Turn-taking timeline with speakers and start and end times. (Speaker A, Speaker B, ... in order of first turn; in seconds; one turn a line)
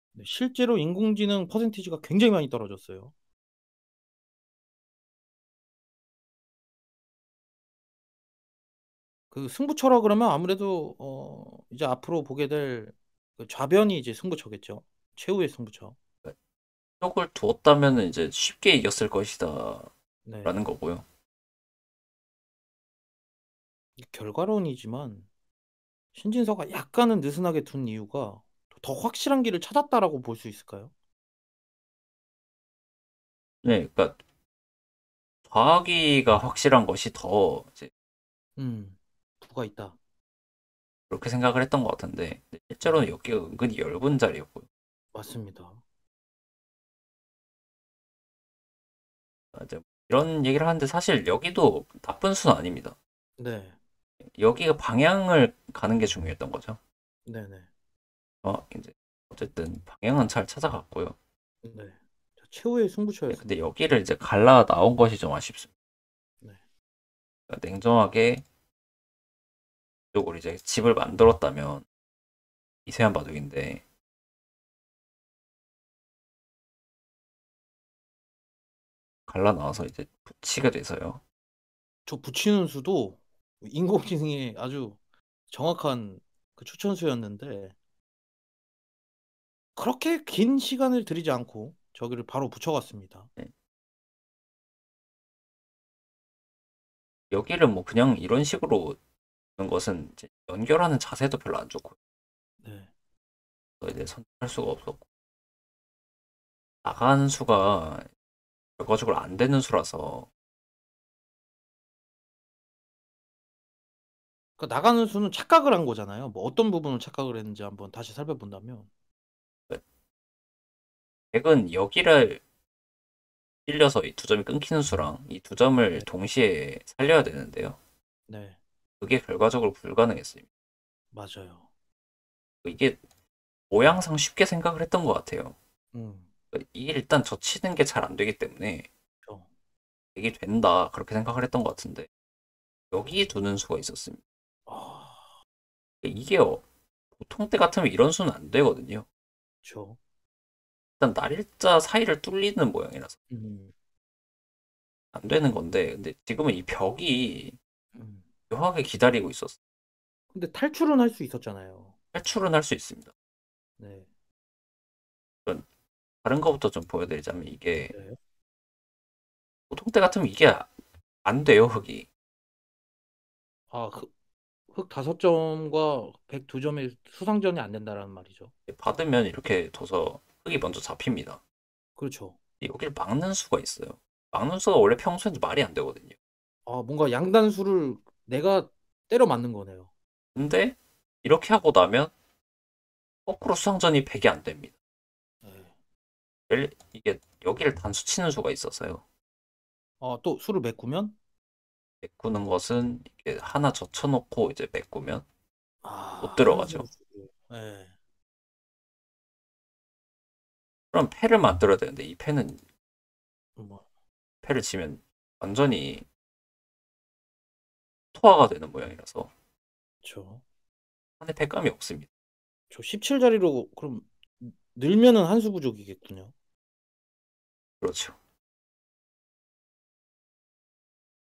Speaker A: 0.1-3.1
Speaker A: 9.3-15.9
Speaker B: 17.0-19.9
Speaker A: 20.3-20.6
Speaker B: 20.4-21.1
Speaker A: 24.0-25.3
Speaker A: 26.1-30.9
Speaker B: 33.6-34.2
Speaker B: 35.5-37.9
Speaker A: 38.6-40.0
Speaker B: 41.1-44.7
Speaker A: 45.1-45.8
Speaker B: 49.5-53.0
Speaker A: 53.4-53.8
Speaker B: 54.4-56.8
Speaker A: 57.3-57.7
Speaker B: 58.4-61.2
Speaker A: 61.6-63.6
Speaker B: 63.3-65.7
Speaker B: 67.5-68.5
Speaker B: 70.1-71.8
Speaker B: 72.9-73.8
Speaker B: 79.3-81.2
Speaker A: 82.1-85.0
Speaker A: 85.5-87.7
Speaker A: 89.8-93.3
Speaker B: 97.3-99.0
Speaker B: 99.6-102.0
Speaker A: 102.6-102.9
Speaker B: 103.8-105.0
Speaker B: 106.8-108.1
Speaker B: 108.8-110.3
Speaker A: 114.6-118.9
Speaker B: 121.3-122.4
Speaker B: 123.7-127.8
Speaker A: 128.3-128.6
Speaker B: 129.0-130.5
Speaker A: 131.1-131.7
Speaker B: 132.6-133.0
Speaker B: 133.7-135.6
Speaker A: 135.9-136.3
Speaker B: 136.5-138.9
Speaker B: 140.2-142.1
Speaker B: 142.9-144.2
Speaker A: 144.7-145.3
Speaker B: 146.0-146.6
Speaker B: 147.2-149.1
Speaker A: 149.6-150.0
Speaker B: 151.0-153.2
Speaker A: 153.3-153.7
Speaker B: 155.1-157.6
Speaker A: 157.9-158.2
Speaker B: 158.5-159.6
Speaker A: 160.3-161.9
Speaker B: 162.1-163.1
Speaker A: 163.8-164.1
Speaker B: 166.2-167.9
Speaker A: 167.9-168.2
Speaker B: 169.7-170.7
Speaker B: 171.2-172.1
Speaker A: 173.7-174.1
Speaker A: 174.7-178.5
Speaker B: 178.7-181.4
Speaker A: 182.0-182.4
Speaker B: 182.6-186.2
Speaker A: 186.7-189.9
Speaker B: 190.3-192.1
Speaker B: 193.3-194.7
Speaker A: 195.4-195.7
Speaker B: 196.5-199.0
Speaker A: 200.0-201.2
Speaker B: 202.0-205.2
Speaker A: 205.8-207.9
Speaker B: 206.2-206.9
Speaker B: 210.9-212.6
Speaker A: 213.6-213.8
Speaker B: 214.4-216.1
Speaker B: 218.1-219.3
Speaker A: 220.0-220.4
Speaker B: 221.2-222.1
Speaker A: 222.7-226.3
Speaker B: 227.8-228.2